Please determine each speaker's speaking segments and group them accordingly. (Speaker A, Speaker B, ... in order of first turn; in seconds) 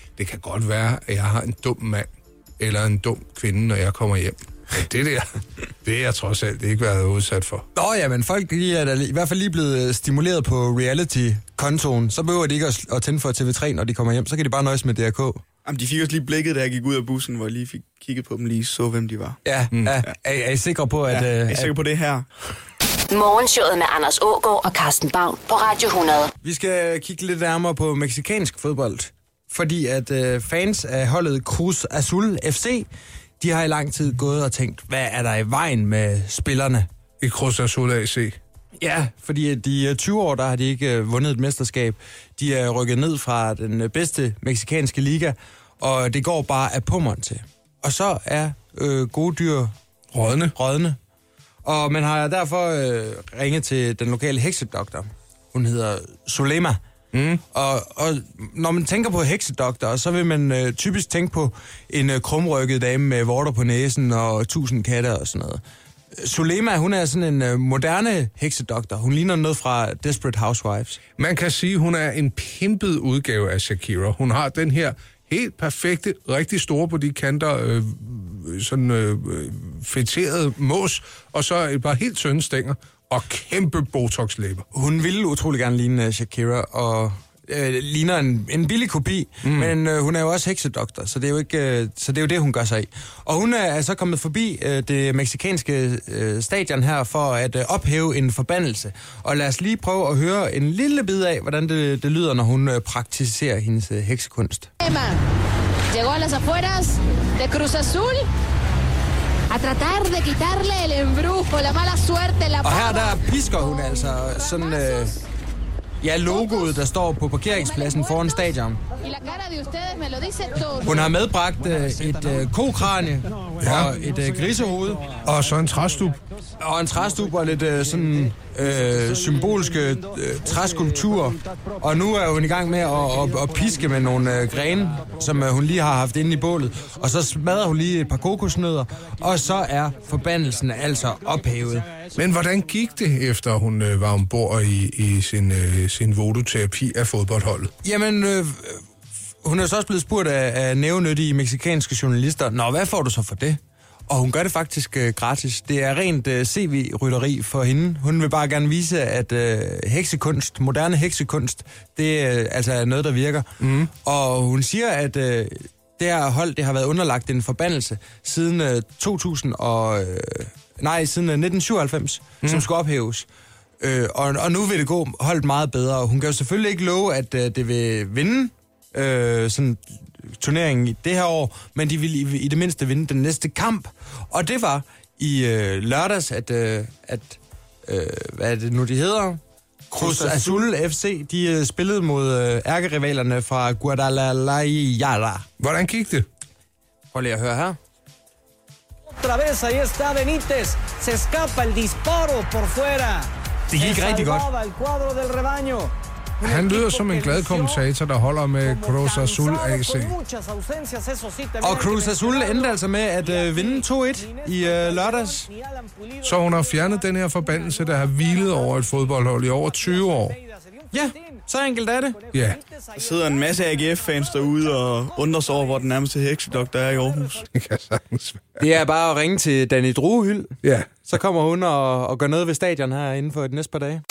Speaker A: 0.2-7.7, 19.7-20.0, 37.2-38.4, 50.1-50.5, 57.1-57.4, 71.2-84.7, 89.4-89.8, 123.6-123.9, 125.2-126.2, 142.2-147.7, 163.6-163.9, 172.4-172.7, 189.9-190.6, 195.6-196.3, 206.4-210.2, 216.2-220.4, 222.3-222.6, 227.5-228.7, 230.6-230.9
Speaker B: 7.8-15.4, 19.4-21.8, 26.4-32.9, 33.4-36.9, 38.8-49.7, 50.5-51.0, 51.6-56.8, 57.5-65.6, 66.1-71.0, 84.7-104.7, 112.6-115.2, 116.0-118.8, 120.8-125.1, 126.6-141.9, 147.8-148.8, 149.4-173.3, 173.8-189.4, 189.9-195.5, 197.1-197.8, 203.7-204.5, 211.6-215.5, 220.9-222.2, 228.6-234.0
Speaker C: 15.7-19.4, 21.1-22.3, 222.9-227.4
Speaker D: 23.1-26.3
Speaker E: 104.8-105.2, 105.9-108.3, 109.5-113.2, 119.0-120.9
Speaker F: 199.1-203.2, 204.5-205.9, 210.2-211.6